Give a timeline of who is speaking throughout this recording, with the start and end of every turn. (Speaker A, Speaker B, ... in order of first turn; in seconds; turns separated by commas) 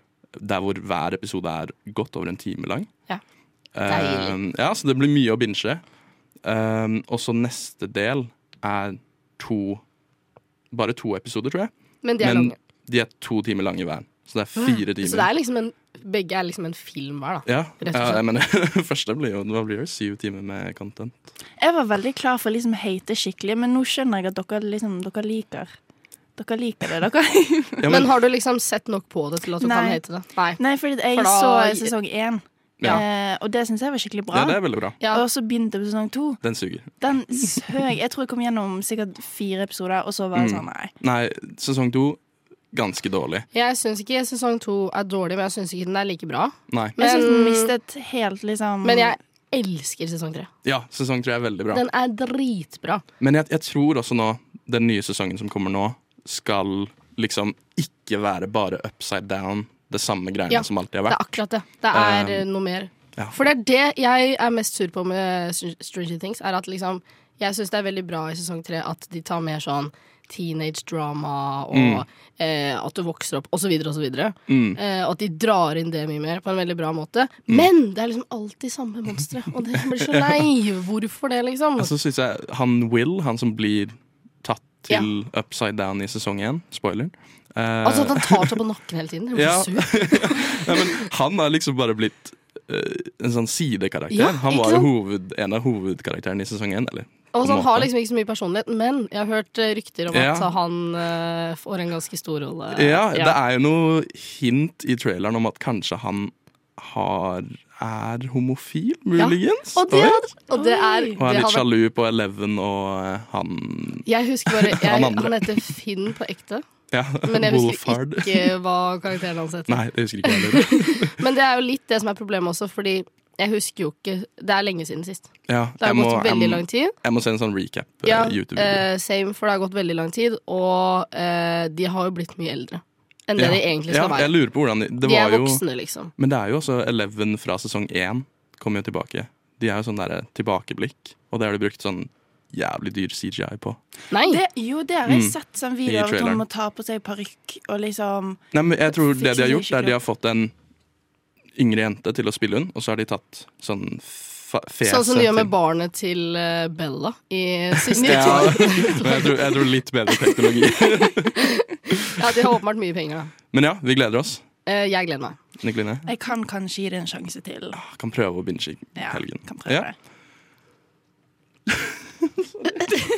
Speaker A: 0.4-2.9, Speaker A: 3.7-5.8, Speaker B: 3.9-4.3, Speaker A: 6.4-9.8, Speaker A: 10.7-15.3, Speaker B: 12.0-12.6, Speaker B: 14.6-18.2, Speaker A: 17.5-21.2, Speaker C: 21.6-25.7, Speaker C: 26.4-27.9, Speaker A: 27.8-28.1, Speaker B: 27.9-31.9, Speaker C: 29.6-30.0, Speaker C: 30.6-36.4, Speaker A: 32.8-33.0, Speaker A: 34.3-35.0, Speaker A: 36.4-37.6, Speaker C: 37.0-40.9, Speaker A: 40.3-42.2, Speaker A: 42.7-43.5, Speaker B: 43.5-47.7, Speaker A: 46.7-47.0, Speaker C: 47.0-49.2, Speaker B: 48.8-50.5, Speaker A: 50.6-51.8, Speaker B: 51.7-53.0, Speaker A: 53.2-61.4, Speaker B: 60.5-81.9, Speaker A: 61.9-62.4, Speaker A: 71.7-72.0, Speaker A: 74.5-74.8, Speaker A: 80.0-80.4, Speaker A: 81.8-88.6, Speaker B: 87.8-91.0, Speaker A: 89.3-97.9, Speaker B: 94.1-94.9, Speaker B: 97.3-103.4, Speaker A: 100.1-100.5, Speaker A: 102.7-110.2, Speaker B: 109.2-111.7, Speaker C: 110.5-111.2, Speaker A: 111.2-115.5, Speaker B: 114.1-116.6, Speaker A: 116.9-118.5, Speaker B: 117.2-126.9, Speaker A: 119.7-121.2, Speaker A: 125.5-128.9, Speaker B: 128.1-134.3, Speaker A: 133.4-135.6, Speaker B: 135.0-136.1, Speaker A: 136.2-143.8, Speaker B: 144.1-144.4, Speaker C: 144.3-150.0, Speaker A: 145.1-146.4, Speaker A: 148.5-150.5, Speaker A: 151.6-155.5, Speaker B: 154.8-159.4, Speaker C: 157.9-159.3, Speaker A: 158.0-161.4, Speaker B: 161.4-163.3, Speaker A: 163.5-164.4, Speaker B: 164.7-165.4, Speaker A: 165.6-166.1, Speaker C: 166.1-167.8, Speaker A: 167.7-169.9, Speaker C: 169.0-169.9, Speaker A: 171.7-172.4